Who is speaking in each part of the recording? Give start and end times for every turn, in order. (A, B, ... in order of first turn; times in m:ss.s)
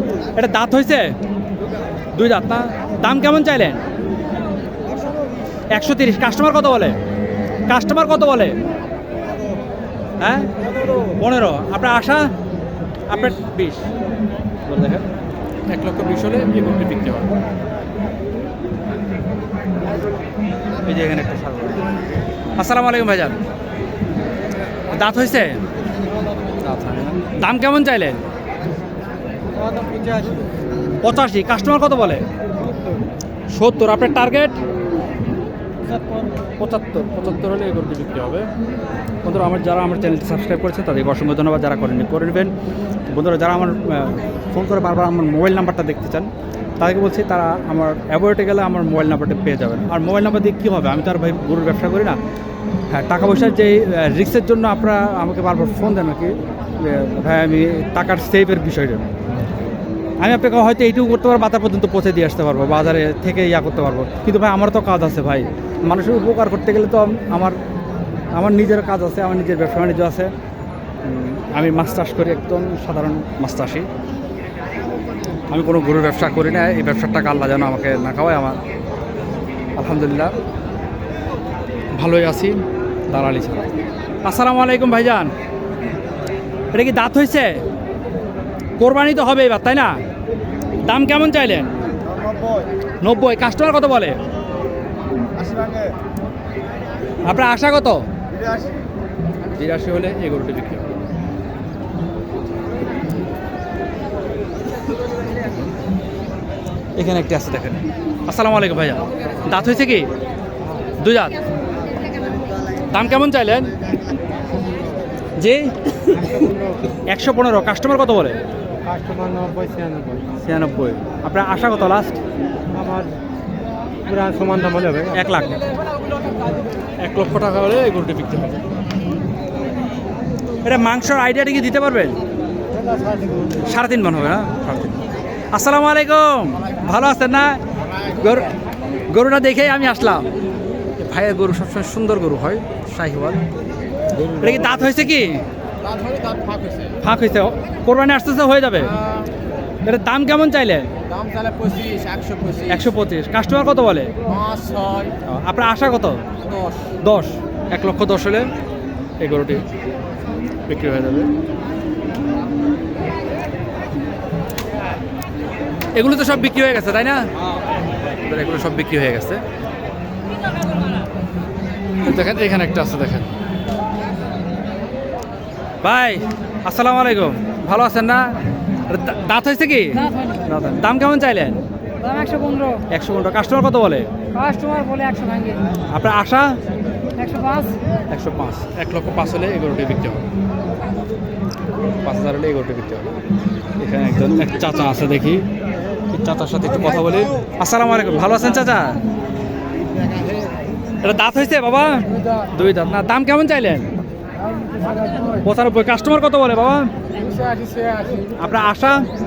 0:00.3-0:01.1 A
0:02.2-0:03.8 A
0:05.8-0:07.0 A
0:07.7-0:08.6 A
0:10.2-0:12.3 A
0:13.1-0:13.9 A
0:14.6-0:15.0 A
0:15.7-0:17.3 A
0:20.8-0:21.8 A
0:22.6-0:23.4 A
0:24.9-0:25.6 A
0:26.6-0:28.2 A
0:29.5-0:30.5 B
0:31.0-0:32.2 A
0:33.5-0:34.6 A
0:36.6-0:38.5 A
0:39.2-0:42.5 A
0:43.1-0:52.2 A
0:52.9-0:59.1 A
1:00.2-1:07.6 A
1:08.3-1:10.3 A
1:11.0-1:13.9 A
1:15.5-1:18.6 A
1:19.8-1:20.4 A
1:21.9-1:23.7 A
1:24.2-1:25.3 A
1:26.7-1:27.6 A
1:28.8-1:30.0 A
1:30.8-1:31.7 A
1:33.0-1:34.2 A
1:37.2-1:38.0 A
1:39.6-1:41.0 A
1:47.0-1:50.1 A
1:51.0-1:51.4 A
1:52.9-1:53.8 A
1:55.4-1:56.4 A
1:56.2-1:56.7 B
1:57.0-1:58.4 A
1:58.9-2:00.2 B
2:00.4-2:02.2 A
2:02.7-2:03.2 B
2:04.0-2:05.1 B
2:05.1-2:05.6 A
2:07.0-2:08.6 A
2:10.6-2:12.2 A
2:12.9-2:13.4 B
2:13.6-2:15.0 A
2:15.5-2:18.5 A
2:19.1-2:20.3 A
2:21.0-2:23.4 A
2:24.3-2:25.4 A
2:25.9-2:27.0 B
2:27.0-2:29.0 A
2:29.8-2:30.9 A
2:31.1-2:32.7 B
2:32.7-2:34.1 A
2:34.3-2:35.2 B
2:35.2-2:36.2 A
2:36.5-2:36.8 B
2:37.0-2:38.5 A
2:39.2-2:39.6 A
2:40.7-2:41.3 A
2:46.0-2:47.3 A
2:48.2-2:49.4 A
2:52.0-2:53.3 A
2:55.8-2:58.3 A
2:58.9-3:01.6 A
3:02.0-3:02.8 C
3:02.9-3:04.1 A
3:04.3-3:05.6 C
3:05.9-3:06.6 A
3:07.1-3:07.8 C
3:08.1-3:10.3 A
3:12.0-3:13.2 A
3:13.8-3:15.5 A
3:16.1-3:19.0 A
3:20.0-3:20.5 B
3:21.0-3:23.9 A
3:24.8-3:25.2 B
3:25.4-3:26.9 A
3:27.2-3:28.3 B
3:28.4-3:29.1 A